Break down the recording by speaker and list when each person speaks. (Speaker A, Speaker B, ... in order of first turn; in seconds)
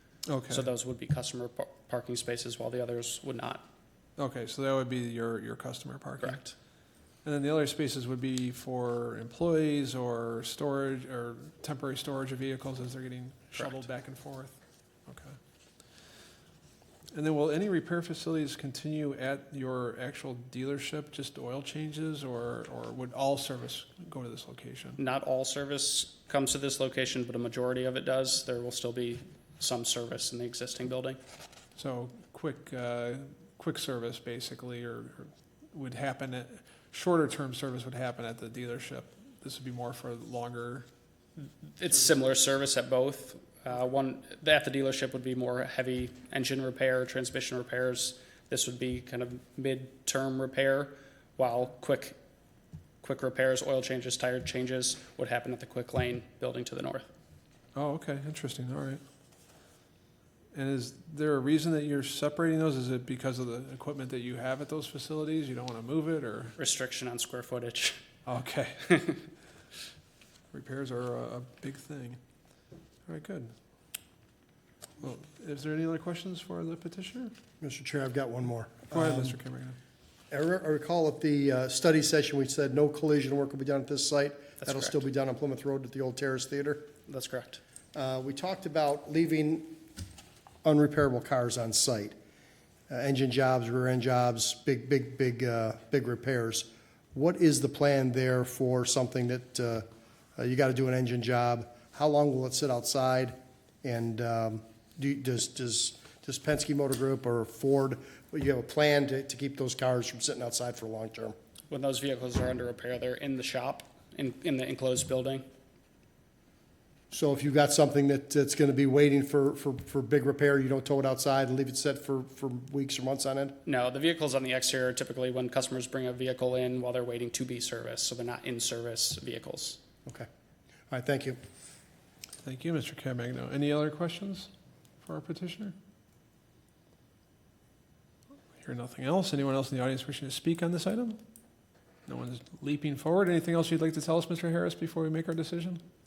Speaker A: 0.3-0.7, 4.2-6.4, 7.2-15.4, 17.1-25.0, 31.8-40.9, 57.8-59.0, 60.5-66.6, 68.3-69.1, 70.5-72.2, 73.1-73.5, 75.0-77.3, 78.9-79.8, 132.4-134.5, 135.0-135.8, 138.6-141.2, 142.1-145.8
Speaker B: 0.5-3.7, 6.2-6.5, 13.6-13.8, 25.0-31.2, 41.4-52.2, 53.0-57.1, 66.6-68.0, 84.6-85.0, 87.1-87.6, 111.7-115.5, 123.7-129.8
Speaker C: 77.6-79.4, 80.3-86.9, 88.0-89.8, 90.6-92.2, 92.9-99.8, 100.4-111.3, 117.1-123.6, 130.9-131.4